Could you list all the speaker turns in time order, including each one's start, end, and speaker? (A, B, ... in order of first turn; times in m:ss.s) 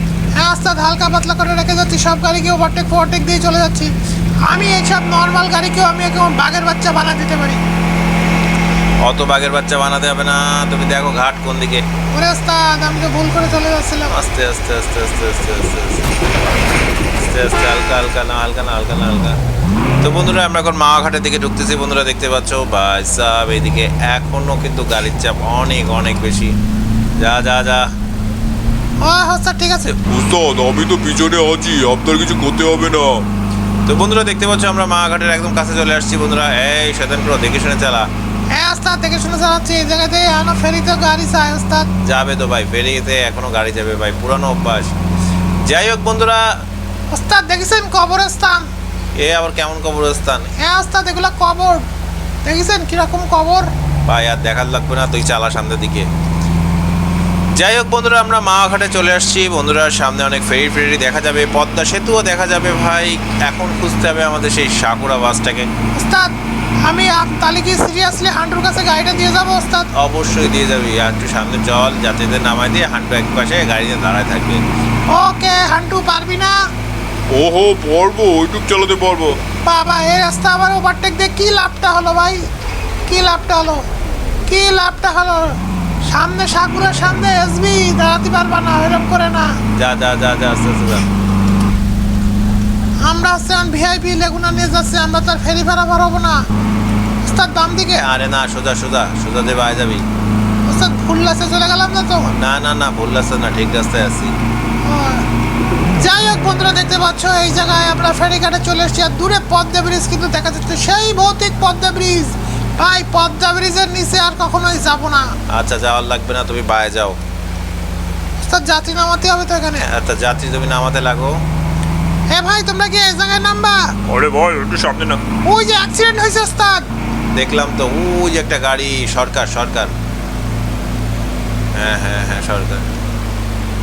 0:00.4-0:03.9 A
0:04.5-0:07.6 A
0:09.0-0:11.8 B
0:12.1-0:14.2 A
0:14.1-0:16.1 B
0:17.2-0:19.4 B
0:20.0-0:26.5 B
0:27.2-0:27.9 B
0:29.0-0:29.9 A
0:30.0-0:33.2 C
0:33.8-0:38.1 B
0:38.5-0:41.9 A
0:42.0-0:44.9 B
0:45.6-0:46.6 B
0:47.1-0:48.7 A
0:49.2-0:50.5 B
0:50.6-0:51.8 A
0:52.4-0:53.7 A
0:54.1-0:56.1 B
0:57.6-1:05.7 B
1:06.0-1:06.3 A
1:06.8-1:09.9 A
1:09.9-1:14.6 B
1:15.1-1:16.6 A
1:17.3-1:19.4 C
1:19.6-1:22.4 A
1:23.1-1:23.8 A
1:24.5-1:25.6 A
1:26.1-1:29.5 A
1:29.8-1:31.0 B
1:33.0-1:36.4 A
1:37.2-1:38.0 A
1:37.9-1:40.0 B
1:40.7-1:42.3 A
1:42.3-1:44.3 B
1:44.8-1:45.2 A
1:46.0-1:55.3 A
1:55.5-1:57.2 B
1:58.4-1:59.8 A
1:59.8-2:01.4 B
2:02.3-2:03.8 A
2:04.1-2:05.2 B
2:05.4-2:06.8 A
2:07.3-2:09.9 B
2:11.7-2:12.9 B